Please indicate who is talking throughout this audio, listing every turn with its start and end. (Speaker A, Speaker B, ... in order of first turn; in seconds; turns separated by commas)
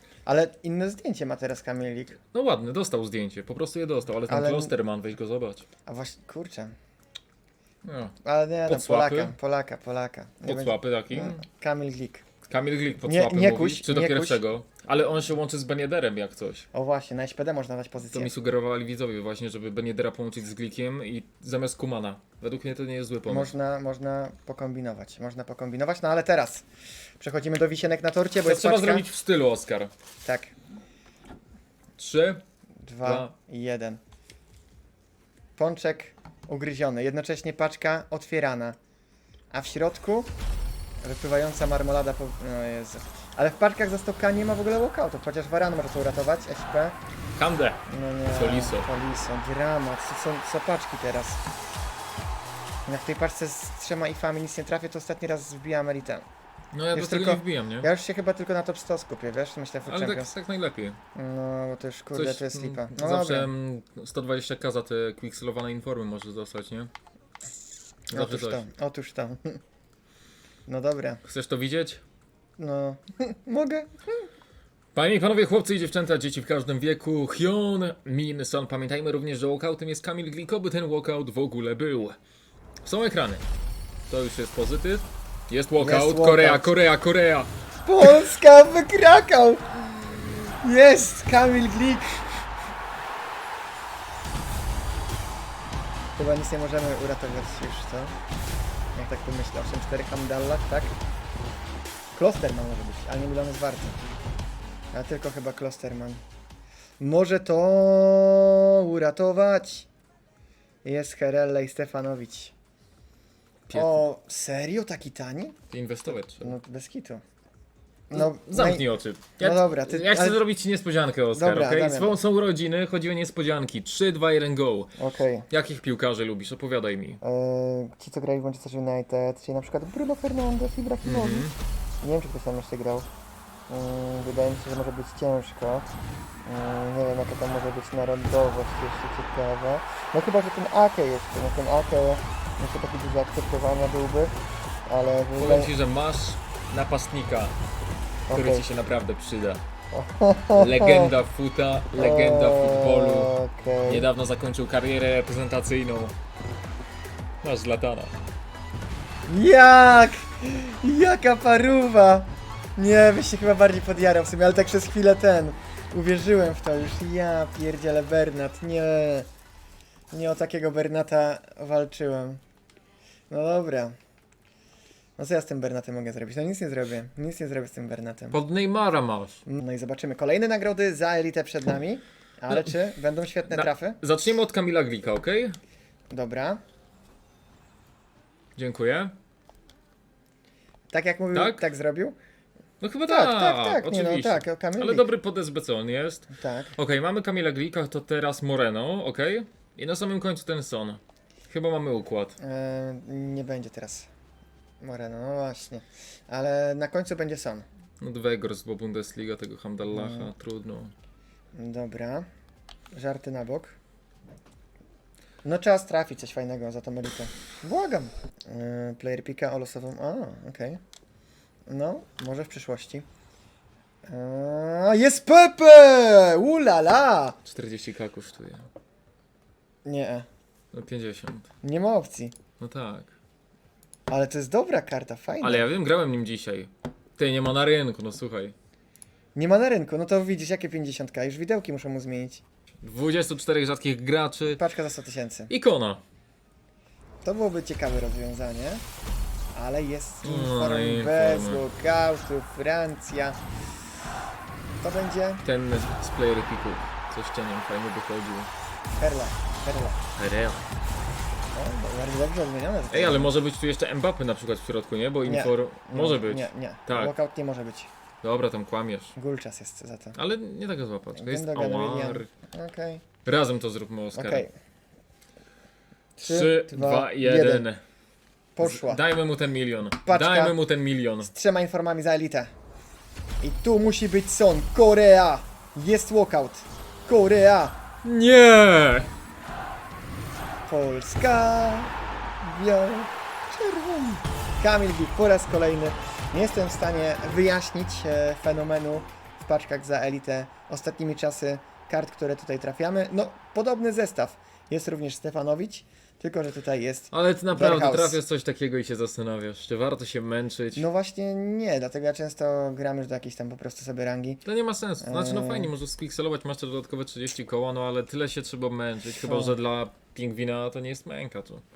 Speaker A: 0.3-2.2, Speaker B: 2.3-5.7, Speaker A: 4.3-4.7, Speaker A: 5.9-6.7, Speaker B: 7.8-8.2, Speaker A: 8.2-12.2, Speaker B: 8.7-9.3, Speaker B: 10.4-11.4, Speaker B: 12.5-16.7, Speaker A: 13.0-14.4, Speaker A: 16.7-18.3, Speaker B: 18.1-23.5, Speaker A: 23.3-26.6, Speaker A: 27.2-29.1, Speaker B: 28.4-29.9, Speaker A: 30.2-30.5, Speaker B: 32.0-32.4, Speaker A: 32.9-34.0, Speaker B: 33.0-33.3, Speaker A: 35.6-38.8, Speaker A: 39.5-40.3, Speaker A: 41.0-47.0, Speaker B: 47.4-48.9, Speaker A: 47.9-51.4, Speaker A: 52.9-56.2, Speaker B: 56.7-57.9, Speaker A: 56.9-60.3, Speaker B: 59.9-61.0, Speaker A: 61.1-63.5, Speaker B: 62.1-66.9, Speaker B: 68.1-68.6, Speaker A: 68.1-69.6, Speaker A: 70.7-71.2, Speaker B: 71.2-72.0, Speaker A: 72.6-74.3, Speaker B: 74.9-82.2, Speaker B: 82.8-83.5, Speaker B: 84.1-87.5, Speaker A: 85.8-86.7, Speaker A: 87.9-92.4, Speaker A: 96.2-98.2, Speaker A: 99.0-101.0, Speaker A: 102.2-104.0, Speaker A: 104.9-106.2, Speaker A: 107.0-109.9, Speaker A: 110.8-112.5, Speaker B: 113.7-114.0, Speaker A: 113.7-115.6, Speaker B: 115.7-116.5, Speaker A: 116.1-117.2, Speaker A: 118.1-118.8, Speaker B: 118.1-124.9, Speaker A: 119.4-120.4, Speaker A: 121.3-122.2, Speaker A: 125.0-125.5, Speaker B: 125.5-127.2, Speaker A: 127.2-131.5, Speaker B: 131.0-131.6, Speaker A: 132.0-133.1, Speaker A: 133.7-135.9, Speaker A: 136.4-144.3, Speaker A: 144.9-145.7, Speaker B: 145.3-147.6, Speaker A: 148.3-148.7, Speaker B: 148.3-149.6, Speaker A: 149.9-151.1, Speaker B: 150.6-153.3, Speaker A: 152.0-154.1, Speaker B: 153.9-156.2, Speaker B: 157.4-158.1, Speaker A: 159.3-169.3, Speaker A: 170.1-172.4, Speaker A: 173.3-173.9, Speaker A: 175.2-178.4, Speaker B: 178.3-179.4, Speaker A: 179.5-184.0, Speaker B: 183.5-185.6, Speaker A: 186.1-186.6, Speaker B: 188.6-189.1, Speaker A: 190.9-192.2, Speaker B: 191.3-191.7, Speaker B: 192.8-202.4, Speaker A: 193.1-195.1, Speaker A: 196.3-196.8, Speaker A: 202.4-204.1, Speaker A: 204.8-207.7, Speaker B: 208.0-210.9, Speaker A: 209.9-210.3, Speaker A: 211.6-212.3, Speaker A: 212.9-213.8, Speaker A: 215.4-220.8, Speaker A: 221.7-223.1, Speaker A: 224.1-227.4, Speaker B: 227.5-228.7, Speaker A: 229.8-230.3, Speaker B: 230.7-231.5, Speaker A: 231.6-232.4, Speaker B: 232.6-233.1, Speaker A: 234.1-235.7, Speaker B: 235.4-238.5, Speaker A: 239.3-242.4, Speaker B: 242.8-244.6, Speaker A: 244.5-245.5, Speaker B: 245.5-246.0, Speaker A: 247.2-248.8, Speaker A: 249.5-253.4, Speaker B: 250.2-251.6, Speaker A: 254.8-255.4, Speaker B: 255.4-258.5, Speaker A: 259.0-260.0, Speaker B: 260.2-260.7, Speaker A: 261.5-263.4, Speaker B: 262.9-267.1, Speaker A: 265.2-267.9, Speaker B: 268.2-269.1, Speaker A: 269.2-270.2, Speaker B: 270.1-272.3, Speaker A: 271.2-273.1, Speaker B: 273.2-274.4, Speaker A: 274.1-274.5, Speaker A: 276.2-277.7, Speaker B: 276.2-277.8, Speaker A: 278.6-279.0, Speaker B: 278.6-281.3, Speaker A: 280.1-280.6, Speaker A: 281.2-282.5, Speaker A: 283.4-287.8, Speaker B: 288.0-289.1, Speaker A: 290.7-308.2, Speaker B: 307.1-310.9, Speaker A: 310.7-314.4, Speaker B: 314.4-321.6, Speaker A: 315.0-315.7, Speaker A: 319.2-319.6